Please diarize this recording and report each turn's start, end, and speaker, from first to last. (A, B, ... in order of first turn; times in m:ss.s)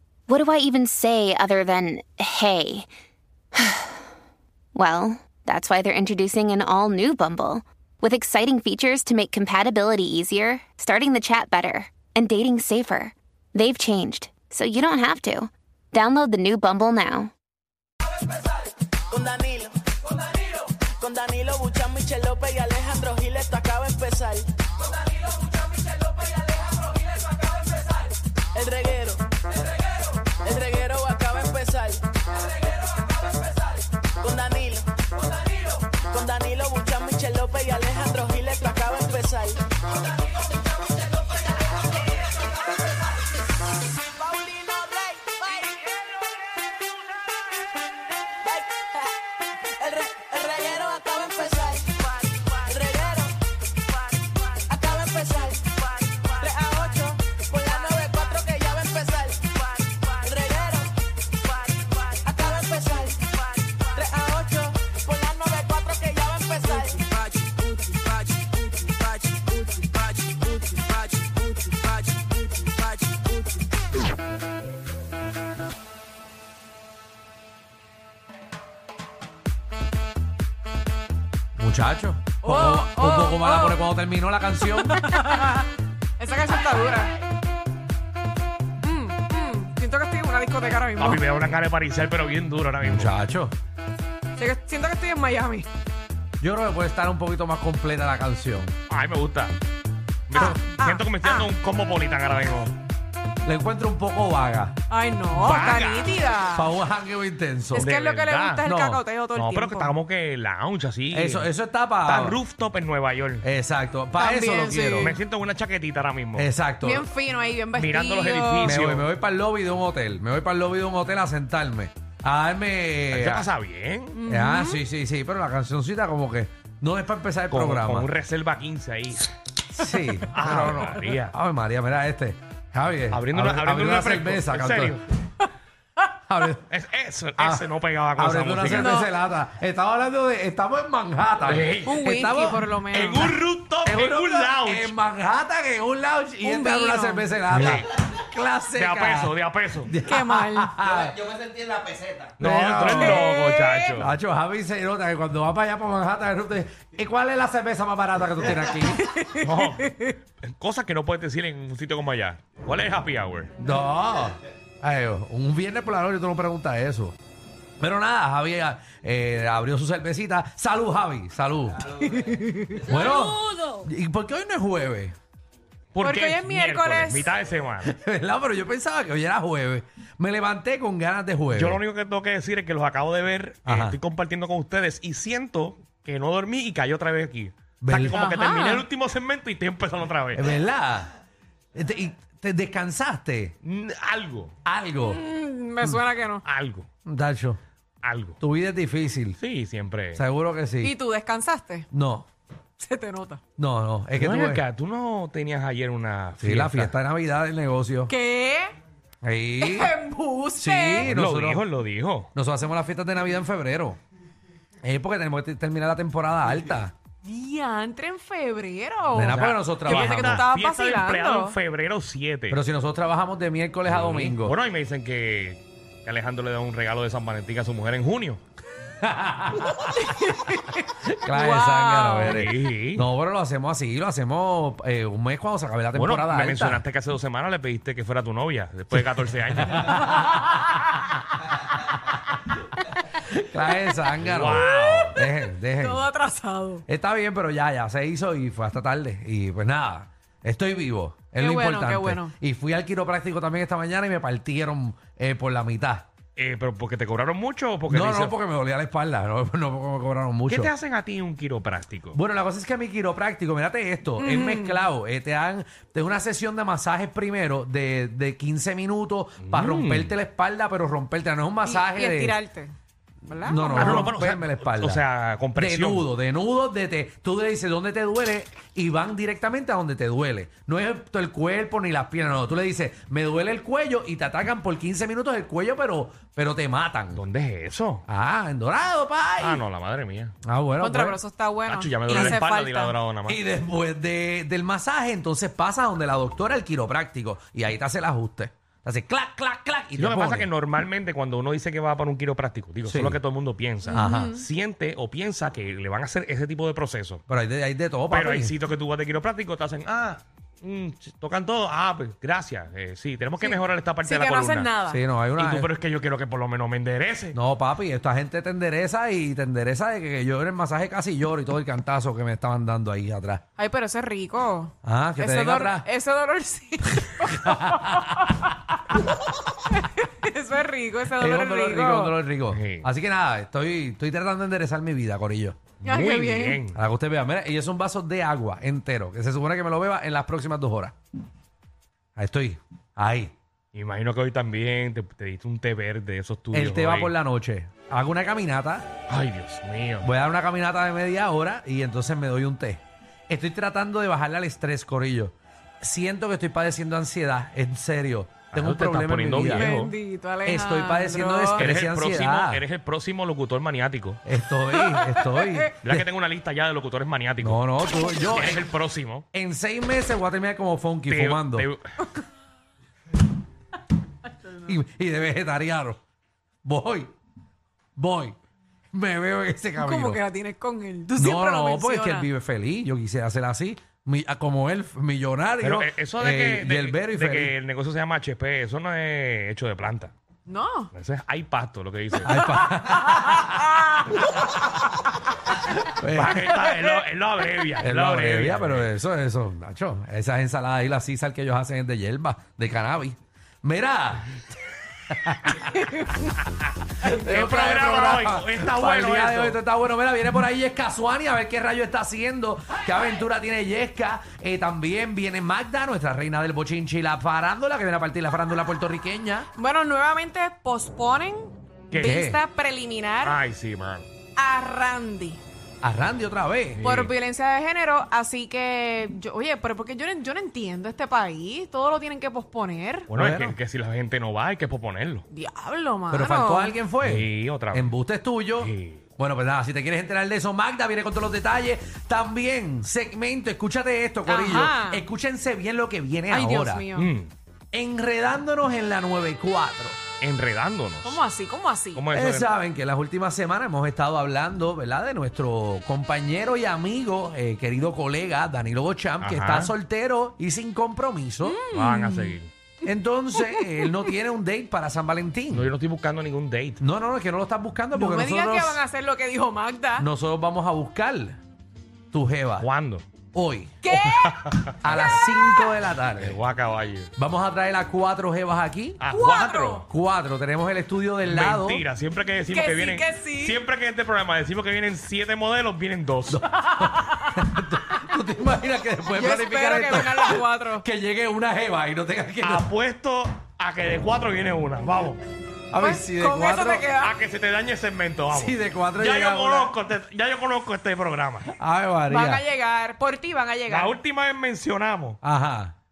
0:00.3-0:02.9 A
0:03.6-0:04.0 A
0:04.8-0:17.3 A
0:19.1-0:19.8 B
0:20.5-0:24.5 B
0:28.5-0:29.3 B
0:30.3-0:32.1 B
0:34.2-0:39.6 B
0:44.2-0:46.0 B
0:48.4-0:53.4 B
0:54.2-1:11.9 B
1:21.6-1:25.1 C
1:22.4-1:23.9 D
1:24.6-1:25.7 D
1:26.2-1:27.1 D
1:28.8-1:31.2 D
1:31.0-1:33.1 E
1:32.8-1:33.6 C
1:34.4-1:35.7 D
1:36.4-1:38.7 C
1:38.9-1:39.6 E
1:40.3-1:42.7 E
1:40.3-1:41.5 D
1:43.4-1:44.8 C
1:44.9-1:46.7 D
1:45.4-1:46.1 E
1:46.5-1:47.9 C
1:47.7-1:50.0 D
1:47.8-1:48.7 E
1:48.6-1:49.0 C
1:49.4-1:51.5 E
1:51.1-1:52.4 C
1:52.0-1:53.5 E
1:53.4-1:55.2 C
1:54.2-1:55.2 D
1:55.0-1:56.5 E
1:56.4-1:57.1 C
1:56.8-1:58.8 D
1:57.8-1:59.1 E
1:58.6-2:03.5 C
2:03.1-2:04.2 E
2:04.2-2:04.8 D
2:04.2-2:08.1 C
2:07.5-2:09.3 E
2:09.7-2:15.0 C
2:10.3-2:11.3 E
2:13.1-2:15.0 E
2:16.2-2:16.6 C
2:16.7-2:19.0 E
2:17.4-2:31.4 C
2:18.7-2:19.1 D
2:21.4-2:22.0 E
2:21.8-2:23.3 D
2:22.9-2:24.9 E
2:26.4-2:27.3 D
2:27.5-2:27.9 E
2:28.8-2:29.9 E
2:30.0-2:30.8 D
2:32.4-2:34.2 E
2:32.4-2:33.3 C
2:32.9-2:34.0 D
2:34.0-2:39.2 C
2:39.0-2:40.1 D
2:39.4-2:43.6 E
2:43.6-2:47.2 C
2:47.8-2:52.0 C
2:52.0-2:53.0 D
2:52.8-2:55.2 C
2:55.9-2:57.9 E
2:56.0-2:57.3 D
2:57.8-3:01.8 C
3:01.5-3:10.5 E
3:03.6-3:04.0 C
3:07.8-3:08.2 C
3:08.1-3:08.8 D
3:10.3-3:11.1 C
3:11.8-3:13.6 C
3:13.6-3:14.5 E
3:14.6-3:15.2 C
3:15.0-3:16.4 D
3:16.4-3:16.9 E
3:17.0-3:17.6 C
3:18.0-3:18.4 E
3:18.4-3:19.4 C
3:19.4-3:20.2 E
3:20.1-3:21.0 C
3:20.8-3:21.9 D
3:21.9-3:22.3 C
3:22.8-3:23.4 D
3:23.6-3:24.6 C
3:24.2-3:27.0 E
3:26.4-3:28.1 C
3:28.1-3:28.8 D
3:29.2-3:30.0 C
3:29.6-3:31.1 D
3:30.6-3:31.6 C
3:31.0-3:32.3 E
3:32.3-3:34.0 C
3:34.8-3:36.9 C
3:37.2-3:41.6 D
3:39.1-3:40.4 C
3:39.3-3:42.6 E
3:42.5-3:44.6 C
3:43.8-3:48.4 E
3:49.0-3:50.0 C
3:49.8-3:52.5 D
3:51.1-3:56.8 C
3:52.3-3:53.1 E
3:55.9-4:00.4 E
3:59.6-4:00.4 C
4:03.1-4:06.1 C
4:04.2-4:05.2 E
4:05.8-4:06.8 D
4:06.9-4:16.1 C
4:11.4-4:12.3 D
4:16.4-4:18.4 E
4:17.9-4:20.7 C
4:20.5-4:22.2 E
4:22.1-4:32.4 C
4:24.2-4:24.9 D
4:29.4-4:30.2 E
4:31.6-4:32.7 D
4:33.2-4:34.1 D
4:33.4-4:35.0 C
4:33.7-4:36.1 E
4:35.6-4:47.2 C
4:47.1-4:48.0 E
4:48.1-4:49.6 C
4:49.4-4:50.4 E
4:50.4-4:51.2 C
4:50.8-4:52.9 D
4:51.7-4:53.4 E
4:52.1-4:52.4 C
4:53.3-5:00.5 C
5:00.0-5:07.2 E
5:02.8-5:03.2 C
5:03.9-5:04.4 D
5:03.9-5:04.3 C
5:07.3-5:08.5 C
5:08.1-5:14.7 E
5:13.4-5:15.0 D
5:14.8-5:15.7 C
5:15.4-5:17.4 E
5:17.3-5:23.4 C
5:23.6-5:28.9 D
5:24.8-5:25.9 C
5:27.0-5:28.3 C
5:29.5-5:32.2 D
5:31.2-5:35.6 C
5:32.5-5:32.9 E
5:35.8-5:36.8 E
5:35.8-5:36.6 D
5:36.7-5:41.0 C
5:42.2-5:43.3 C
5:43.7-5:47.2 E
5:46.5-5:48.9 C
5:49.1-5:50.1 E
5:50.0-5:59.7 C
5:58.5-5:59.9 E
5:59.5-6:01.7 D
6:00.4-6:02.6 C
6:01.6-6:04.2 E
6:04.2-6:06.0 C
6:04.7-6:05.7 D
6:05.8-6:07.6 E
6:07.4-6:08.6 C
6:08.3-6:09.2 E
6:09.3-6:11.7 C
6:11.1-6:11.8 E
6:14.6-6:16.0 C
6:16.6-6:17.1 C
6:18.0-6:18.4 C
6:18.9-6:20.2 C
6:19.8-6:22.3 D
6:21.2-6:27.5 C
6:25.6-6:30.2 E
6:30.5-6:30.9 D
6:30.9-6:32.5 E
6:32.2-6:33.7 C
6:33.1-6:34.0 D
6:35.8-6:36.6 C
6:36.1-6:38.9 E
6:37.8-6:44.4 C
6:45.1-6:45.7 C
6:45.6-6:46.2 D
6:47.0-6:59.5 C
6:47.0-6:49.6 E
6:59.6-7:03.4 D
7:01.9-7:02.2 E
7:02.0-7:02.4 C
7:03.2-7:04.1 E
7:04.4-7:05.4 D
7:05.8-7:06.9 C
7:06.8-7:07.1 E
7:06.8-7:13.1 D
7:13.1-7:15.2 E
7:13.1-7:13.6 C
7:15.3-7:16.8 D
7:16.1-7:26.9 C
7:17.0-7:17.9 E
7:18.6-7:19.0 E
7:24.3-7:25.1 D
7:26.3-7:27.1 D
7:27.0-7:27.3 E
7:27.7-7:30.0 C
7:30.2-7:31.2 E
7:31.0-7:32.0 D
7:31.9-7:32.5 E
7:32.1-7:41.6 C
7:39.2-7:39.7 E
7:41.4-7:42.4 D
7:41.7-7:42.5 E
7:42.8-7:45.7 C
7:43.4-7:43.9 D
7:45.5-7:46.8 E
7:46.8-7:48.8 C
7:47.9-7:50.1 D
7:50.0-7:51.4 C
7:52.1-7:52.7 C
7:52.6-7:53.1 E
7:53.3-7:53.9 C
7:53.8-7:55.7 D
7:54.1-7:55.0 E
7:54.8-7:56.4 C
7:56.2-7:57.1 E
7:57.2-7:59.0 C
7:59.0-7:59.9 E
7:59.1-7:59.9 D
7:59.9-8:01.8 C
8:01.2-8:06.4 E
8:02.5-8:03.6 D
8:06.3-8:12.7 C
8:06.9-8:07.4 D
8:09.1-8:10.8 D
8:12.4-8:15.2 E
8:15.7-8:16.9 C
8:15.8-8:17.2 D
8:17.0-8:21.5 E
8:18.3-8:19.7 C
8:21.5-8:22.4 C
8:22.1-8:24.0 D
8:23.7-8:25.2 E
8:25.2-8:25.8 C